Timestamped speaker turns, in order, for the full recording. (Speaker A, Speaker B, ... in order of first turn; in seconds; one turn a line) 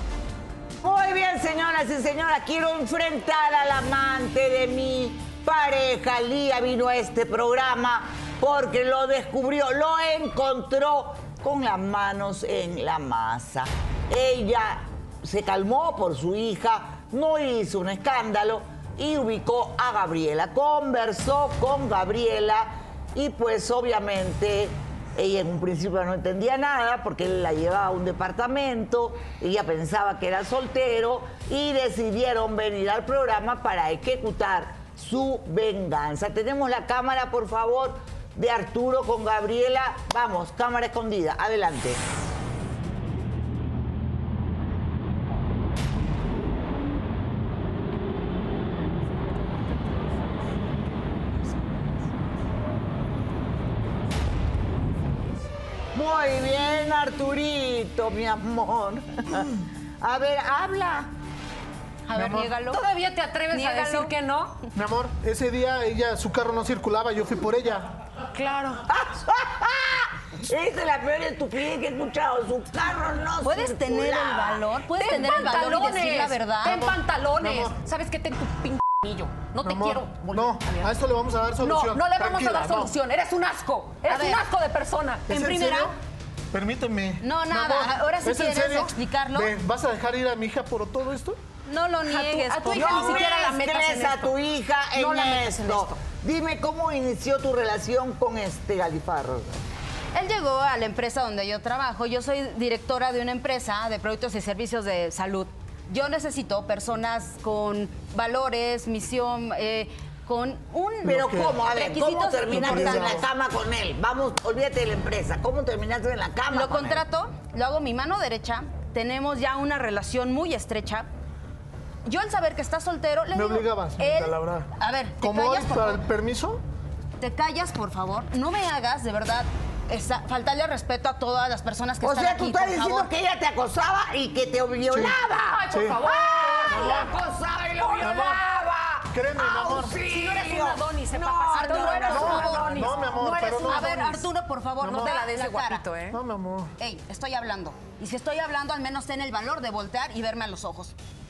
Speaker A: 0.8-42.0
Speaker A: 55.9-61.1
Speaker B: 62.1-62.8
Speaker C: 62.1-62.5
Speaker D: 62.7-64.6
Speaker B: 63.5-64.1
Speaker C: 64.8-67.9
Speaker D: 68.3-68.8
Speaker A: 68.9-74.7
Speaker B: 73.4-76.8
Speaker D: 75.0-81.0
Speaker C: 76.7-77.8
Speaker C: 79.6-82.9
Speaker D: 81.6-85.3
Speaker B: 84.1-84.5
Speaker C: 85.3-85.9
Speaker B: 85.3-85.9
Speaker C: 86.5-91.4
Speaker B: 87.2-89.5
Speaker B: 91.7-93.3
Speaker D: 92.1-94.4
Speaker A: 92.7-99.6
Speaker D: 95.0-96.0
Speaker B: 100.1-113.2
Speaker A: 111.0-117.0
Speaker C: 111.1-111.5
Speaker C: 112.5-113.2
Speaker B: 116.5-121.1
Speaker B: 122.0-126.0
Speaker C: 123.3-124.7
Speaker C: 125.2-126.6
Speaker B: 127.2-133.1
Speaker A: 132.0-143.3
Speaker C: 134.9-135.2
Speaker D: 135.3-137.1
Speaker C: 135.7-136.1
Speaker C: 136.7-137.1
Speaker C: 138.0-138.4
Speaker C: 139.1-140.0
Speaker D: 139.9-144.2
Speaker B: 141.5-142.8
Speaker C: 142.1-144.0
Speaker B: 143.6-145.8
Speaker C: 144.8-145.1
Speaker D: 144.9-146.2
Speaker C: 146.1-146.7
Speaker B: 146.8-150.9